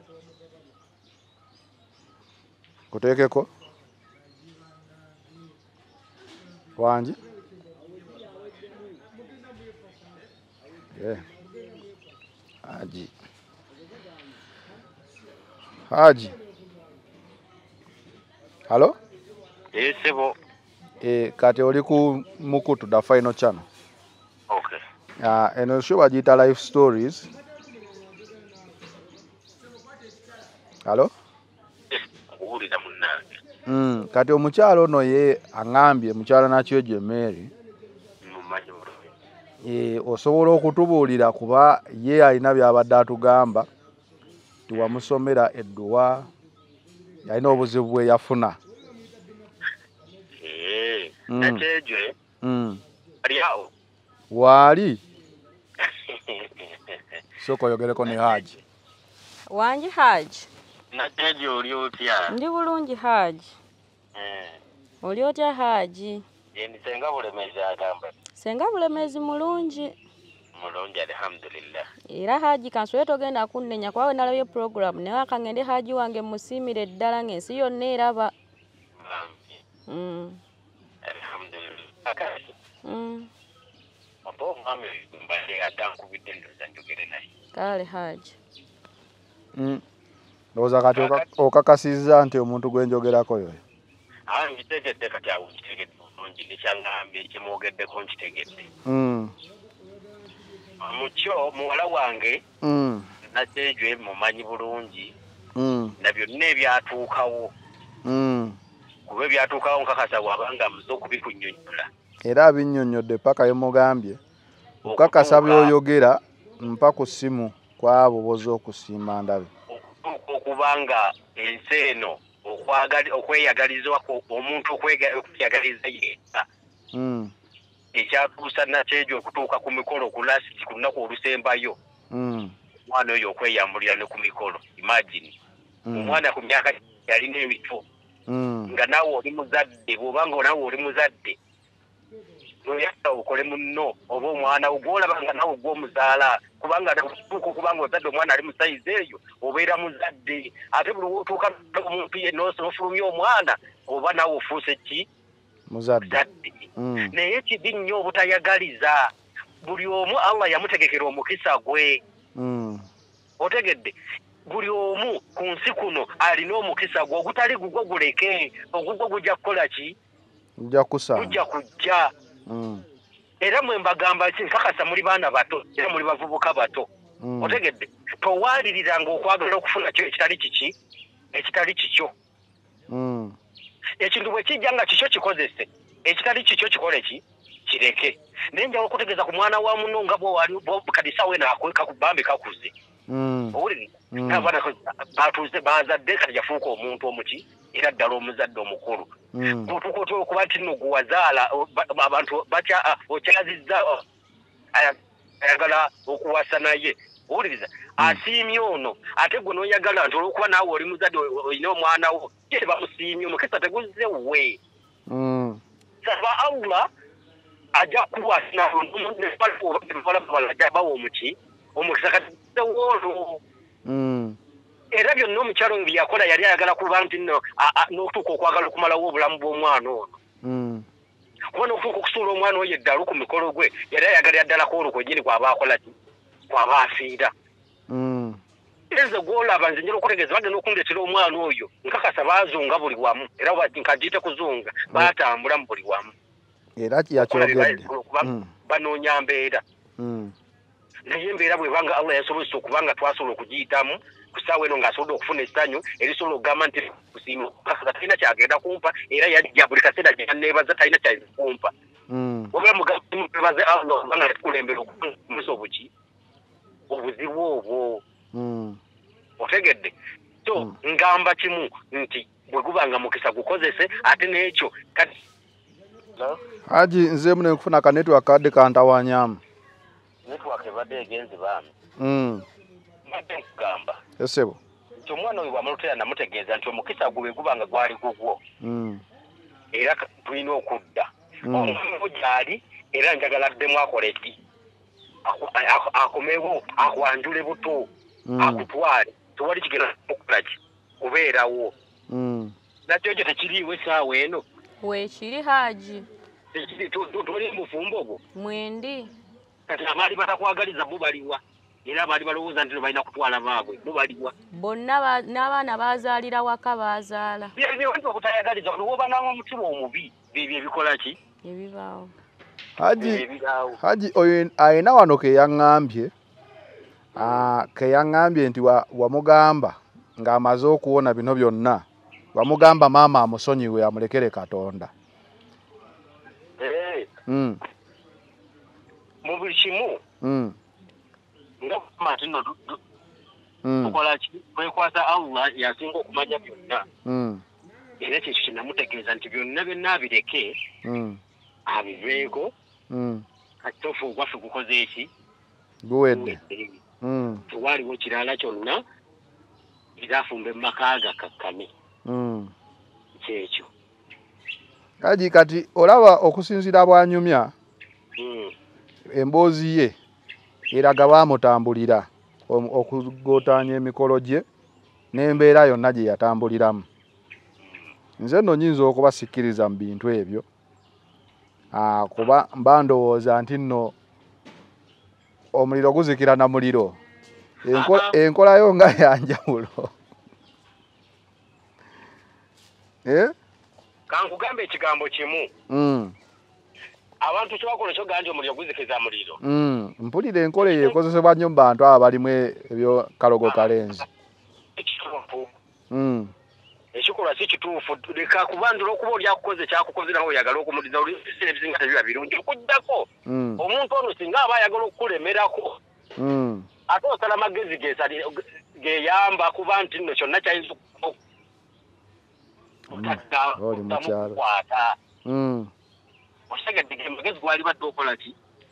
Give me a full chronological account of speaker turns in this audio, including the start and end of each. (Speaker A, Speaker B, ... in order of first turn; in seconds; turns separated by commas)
Speaker A: 2.9-3.5, Speaker A: 6.8-7.2, Speaker A: 10.9-11.2, Speaker A: 12.6-13.1, Speaker A: 15.9-16.4, Speaker A: 18.7-18.9, Speaker B: 19.7-20.4, Speaker A: 21.0-23.6, Speaker B: 24.5-24.8, Speaker A: 25.2-27.3, Speaker A: 30.8-31.1, Speaker B: 31.9-33.4, Speaker A: 33.7-37.5, Speaker B: 38.2-39.1, Speaker A: 39.6-43.7, Speaker A: 44.7-46.3, Speaker B: 44.7-45.0, Speaker A: 47.2-48.6, Speaker B: 50.4-52.1, Speaker A: 51.3-51.6, Speaker A: 52.4-52.8, Speaker B: 53.2-53.7, Speaker A: 54.3-55.0, Speaker B: 55.8-57.0, Speaker A: 57.4-58.6, Speaker B: 58.1-58.5, Speaker C: 59.5-60.5, Speaker B: 60.9-62.3, Speaker C: 62.3-63.6, Speaker B: 64.1-64.6, Speaker C: 65.0-66.2, Speaker B: 66.5-68.1, Speaker C: 68.3-69.9, Speaker B: 70.5-71.9, Speaker C: 72.1-78.3, Speaker B: 79.0-79.6, Speaker C: 79.9-80.4, Speaker B: 81.0-82.5, Speaker C: 82.8-83.3, Speaker B: 84.2-87.3, Speaker C: 87.5-88.4, Speaker A: 89.5-89.8, Speaker A: 90.5-93.6, Speaker B: 90.9-91.2, Speaker B: 94.3-98.7, Speaker A: 98.8-99.3, Speaker B: 100.8-102.4, Speaker A: 102.6-103.1, Speaker B: 103.3-105.1, Speaker A: 105.5-106.0, Speaker B: 106.0-107.5, Speaker A: 108.0-108.6, Speaker B: 109.1-111.9, Speaker A: 112.2-114.2, Speaker B: 114.8-115.7, Speaker A: 114.8-119.5, Speaker B: 119.7-126.4, Speaker A: 126.9-127.3, Speaker B: 127.9-131.8, Speaker A: 132.1-132.5, Speaker B: 132.9-135.3, Speaker A: 135.8-136.2, Speaker B: 135.9-137.8, Speaker A: 138.3-138.8, Speaker B: 138.7-141.4, Speaker B: 142.6-155.1, Speaker A: 155.7-156.2, Speaker B: 156.1-159.1, Speaker A: 156.8-157.1, Speaker B: 159.6-162.0, Speaker A: 162.3-162.8, Speaker B: 163.4-163.9, Speaker B: 164.4-169.9, Speaker A: 170.6-171.4, Speaker B: 171.2-172.1, Speaker A: 172.5-172.8, Speaker B: 173.4-176.9, Speaker A: 177.2-177.6, Speaker B: 177.4-180.7, Speaker B: 181.3-182.1, Speaker A: 182.9-183.3, Speaker B: 184.0-192.7, Speaker A: 193.1-193.6, Speaker B: 193.5-199.1, Speaker A: 194.1-194.5, Speaker A: 199.3-199.7, Speaker B: 199.6-204.0, Speaker B: 204.7-214.6, Speaker A: 215.1-215.6, Speaker B: 216.0-216.9, Speaker B: 217.7-223.4, Speaker A: 223.8-224.4, Speaker B: 224.9-230.2, Speaker A: 230.4-230.8, Speaker B: 231.5-235.9, Speaker B: 236.5-237.3, Speaker A: 237.9-238.4, Speaker B: 238.9-246.1, Speaker A: 246.8-248.5, Speaker B: 247.2-249.6, Speaker A: 250.0-250.3, Speaker B: 251.1-261.7, Speaker A: 262.1-262.5, Speaker B: 262.5-265.9, Speaker B: 266.9-268.0, Speaker A: 268.3-268.8, Speaker B: 269.4-269.9, Speaker B: 270.4-275.1, Speaker A: 276.7-279.4, Speaker B: 280.2-281.7, Speaker A: 282.0-282.4, Speaker B: 283.0-284.0, Speaker A: 284.2-284.6, Speaker B: 285.0-288.4, Speaker A: 288.6-289.0, Speaker B: 289.7-294.4, Speaker A: 291.5-291.8, Speaker B: 295.2-297.9, Speaker A: 298.3-298.7, Speaker B: 298.4-301.7, Speaker A: 302.1-302.5, Speaker B: 302.9-304.4, Speaker C: 304.8-306.1, Speaker B: 306.5-308.2, Speaker C: 308.3-309.1, Speaker B: 309.7-314.3, Speaker C: 314.5-317.5, Speaker B: 317.6-321.2, Speaker C: 321.4-322.1, Speaker A: 322.8-323.2, Speaker B: 323.0-323.8, Speaker A: 323.8-326.1, Speaker A: 327.1-334.9, Speaker B: 327.1-327.4, Speaker B: 336.6-337.1, Speaker A: 337.3-337.6, Speaker B: 339.2-340.0, Speaker A: 340.2-340.6, Speaker B: 341.6-342.8, Speaker A: 343.6-344.0, Speaker B: 343.8-346.9, Speaker A: 347.0-347.4, Speaker B: 348.0-350.6, Speaker A: 350.8-351.2, Speaker B: 351.6-352.5, Speaker A: 352.9-353.2, Speaker B: 353.6-355.1, Speaker A: 355.8-356.4, Speaker B: 356.1-356.8, Speaker A: 357.0-357.4, Speaker B: 357.5-358.8, Speaker B: 360.0-361.7, Speaker A: 362.1-362.5, Speaker B: 363.2-363.7, Speaker A: 365.0-367.5, Speaker B: 368.2-368.5, Speaker A: 369.1-369.9, Speaker A: 370.7-374.4, Speaker A: 375.1-376.9, Speaker A: 378.2-380.4, Speaker A: 381.7-383.9, Speaker A: 385.5-387.0, Speaker A: 387.6-389.9, Speaker B: 387.6-388.1, Speaker A: 393.0-393.3, Speaker B: 394.1-395.5, Speaker A: 395.7-396.1, Speaker B: 397.2-399.4, Speaker A: 399.4-404.1, Speaker B: 400.7-400.9, Speaker B: 404.8-405.5, Speaker A: 405.9-406.3, Speaker B: 406.9-413.1, Speaker A: 413.2-413.6, Speaker B: 413.6-415.8, Speaker A: 416.2-416.7, Speaker B: 416.9-421.1, Speaker A: 422.9-424.4, Speaker B: 422.9-424.9, Speaker A: 425.2-425.7, Speaker B: 426.5-428.3